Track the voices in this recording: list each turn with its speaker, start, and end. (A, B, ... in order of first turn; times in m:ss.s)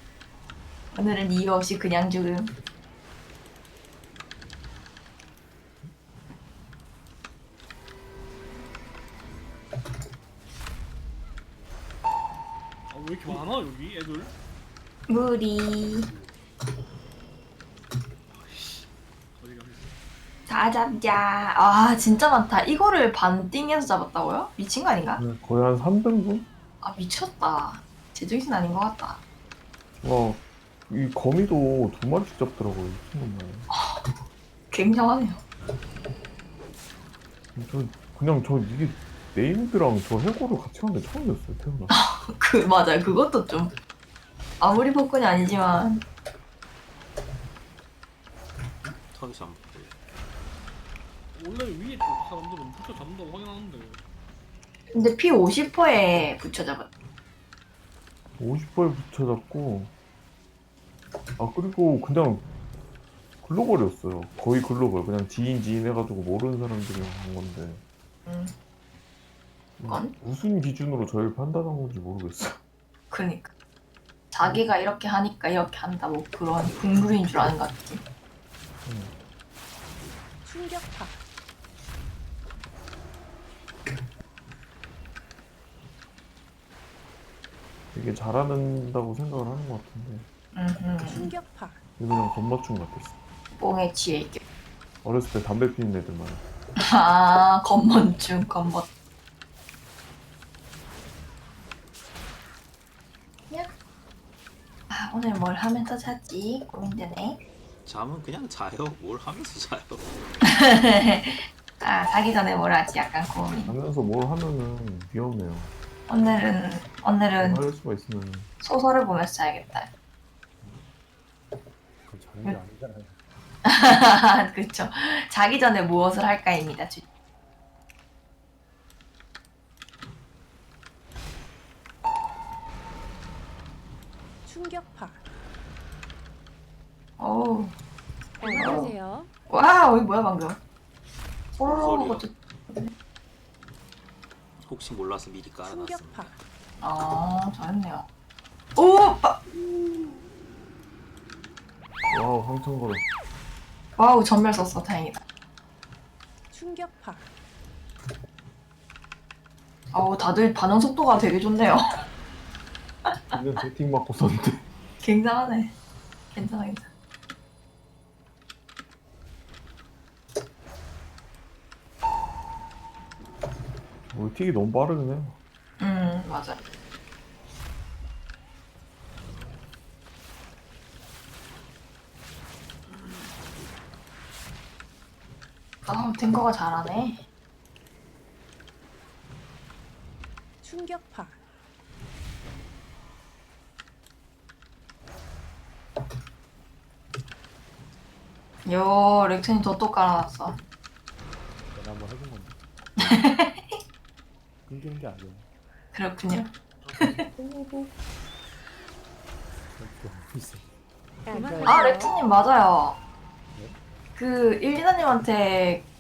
0:00.9-0:02.5 A
0:12.9-0:14.3 B
0:15.1-0:16.1 A
0:18.3-0:19.9 B
0:20.5-0:25.2 A
0:25.2-0:26.5 C
0:26.8-0:29.2 A
0:30.0-0:33.6 C
0:33.7-0:34.1 A
0:34.7-0:35.4 A
0:37.5-0:41.9 C
0:41.9-0:43.7 A
0:44.6-0:46.0 A
0:48.8-0:49.9 D
0:51.3-0:54.0 B
0:54.9-0:56.9 A
0:58.4-0:59.9 C
1:01.4-1:02.4 C
1:03.4-1:07.8 C
1:08.3-1:08.5 A
1:09.8-1:12.6 C
1:09.9-1:10.1 A
1:13.1-1:13.5 A
1:14.3-1:18.0 A
1:18.8-1:19.1 C
1:20.4-1:21.2 E
1:27.9-1:30.2 C
1:30.5-1:31.3 A
1:31.0-1:31.8 E
1:32.0-1:33.2 C
1:33.6-1:34.4 A
1:35.0-1:36.4 C
1:36.8-1:38.9 A
1:44.9-1:47.4 A
1:47.8-1:50.1 D
1:50.4-1:53.7 A
1:53.5-1:55.7 C
1:56.1-1:57.6 A
1:57.4-1:58.5 C
1:58.6-1:59.9 A
2:02.1-2:03.2 F
2:03.6-2:07.1 A
2:14.4-2:15.2 E
2:17.2-2:17.7 A
2:18.4-2:19.3 E
2:18.4-2:18.9 A
2:19.5-2:20.6 A
2:21.5-2:22.2 D
2:21.6-2:22.9 A
2:24.6-2:26.3 D
2:25.6-2:26.4 E
2:26.8-2:28.1 A
2:28.8-2:29.4 A
2:32.1-2:33.0 C
2:34.0-2:35.2 A
2:36.5-2:37.3 E
2:39.9-2:41.8 A
2:43.3-2:44.6 C
2:45.0-2:45.7 A
2:46.3-2:46.9 A
2:54.1-2:55.4 C
2:55.8-2:56.6 A
3:05.8-3:07.2 A
3:10.6-3:11.4 E
3:18.6-3:20.5 A
3:21.7-3:23.3 F
3:23.0-3:23.7 A
3:24.6-3:25.5 F
3:25.9-3:27.2 A
3:26.8-3:27.9 F
3:29.8-3:30.7 F
3:31.2-3:32.0 F
3:31.3-3:32.1 E
3:31.6-3:33.0 A
3:34.2-3:35.8 A